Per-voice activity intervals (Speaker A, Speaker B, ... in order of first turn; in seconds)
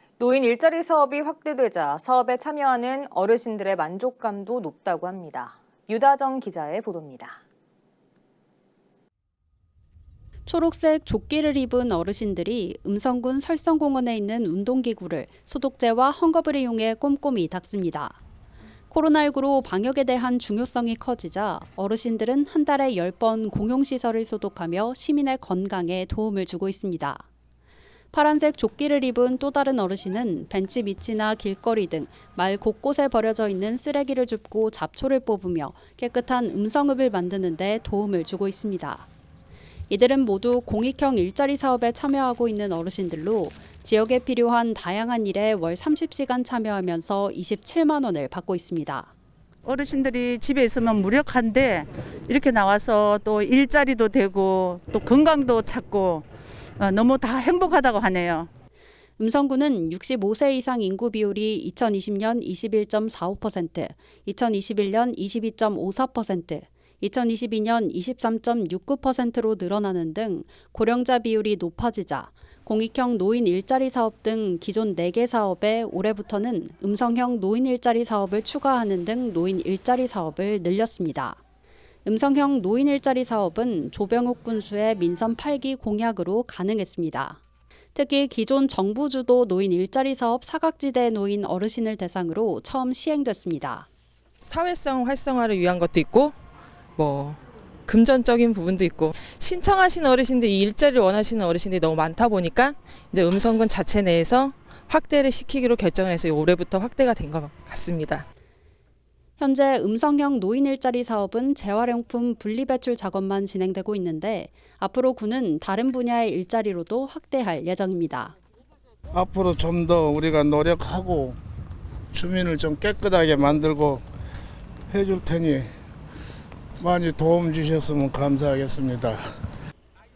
Speaker A: 0.2-7.4
Speaker B: 10.4-18.2, 18.9-27.3, 28.1-39.1, 39.9-49.1, 59.2-81.4, 82.0-87.4, 87.9-93.9, 109.4-118.4
Speaker C: 49.6-56.2, 56.8-58.5
Speaker D: 94.4-96.3, 97.0-108.3
Speaker E: 119.1-121.4, 122.1-124.0, 124.9-125.7, 126.8-129.2